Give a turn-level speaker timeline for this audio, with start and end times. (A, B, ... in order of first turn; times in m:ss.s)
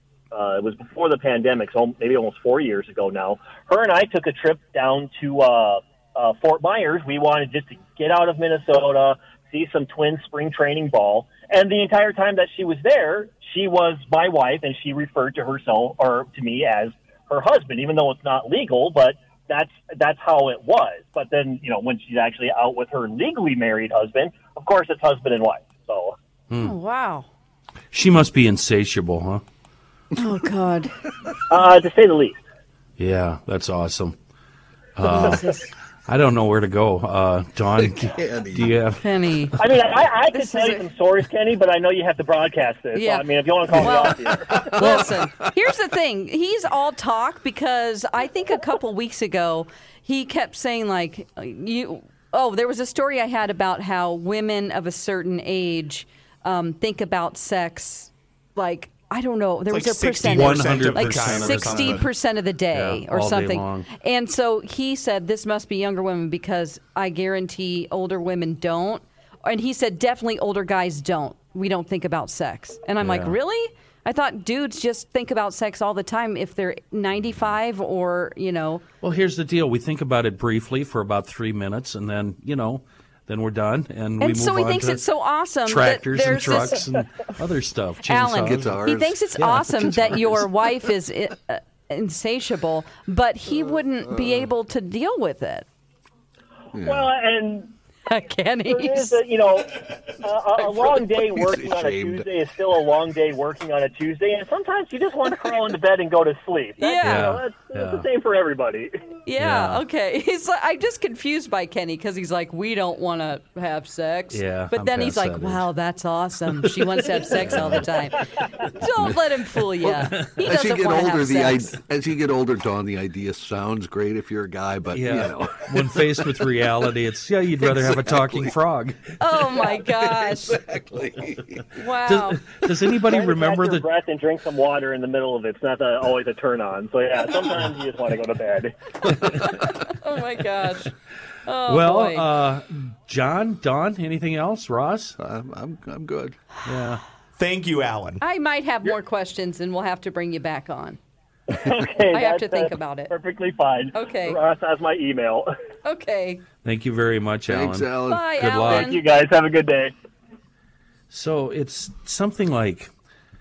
0:00.3-0:26.2 A
0:26.5-0:26.8 B
0:26.6-0:27.3 C
0:27.9-0:29.4 B
0:30.2-0:31.0 C
0:31.5-0:32.4 A
0:33.0-0:34.2 B
0:35.0-0:39.6 B
0:35.0-0:35.6 C
0:37.8-0:38.8 D
0:39.0-0:39.6 C
0:39.6-0:45.0 A
0:40.3-0:40.9 C
0:43.0-1:18.8 C
0:43.9-0:45.6 D
0:59.7-1:02.1 E
1:00.2-1:02.1 B
1:02.7-1:03.9 B
1:13.0-1:13.4 B
1:19.0-1:25.1 B
1:24.2-1:26.8 C
1:25.6-1:28.8 B
1:28.0-1:35.7 C
1:28.4-1:30.5 D
1:29.4-1:29.9 B
1:34.1-1:34.4 D
1:36.7-1:37.1 D
1:36.8-1:37.7 A
1:38.1-1:39.2 C
1:38.7-1:49.0 A
1:41.4-1:42.3 D
1:46.8-1:47.4 C
1:47.0-1:48.1 B
1:49.3-2:01.8 C
1:49.4-1:49.8 B
1:54.3-1:55.7 B
1:56.6-1:57.9 B
1:58.6-2:00.4 B
2:00.0-2:06.5 D
2:04.9-2:09.2 B
2:07.6-2:08.5 D
2:09.2-2:10.6 C
2:09.6-2:11.7 D
2:11.8-2:12.4 C
2:12.0-2:13.8 B
2:13.1-2:18.8 A
2:19.0-2:19.5 B
2:19.4-2:20.9 C
2:21.4-2:22.3 C
2:21.7-2:25.2 B
2:25.2-2:26.4 D
2:26.6-2:27.0 B
2:27.4-2:28.2 E
2:28.2-2:31.0 C
2:31.5-2:35.5 A
2:32.1-2:33.1 C
2:33.9-2:34.4 C
2:35.8-2:36.4 C
2:36.6-2:39.0 B
2:37.5-2:38.4 D
2:38.1-2:39.0 C
2:38.7-2:39.9 A
2:41.1-2:42.9 B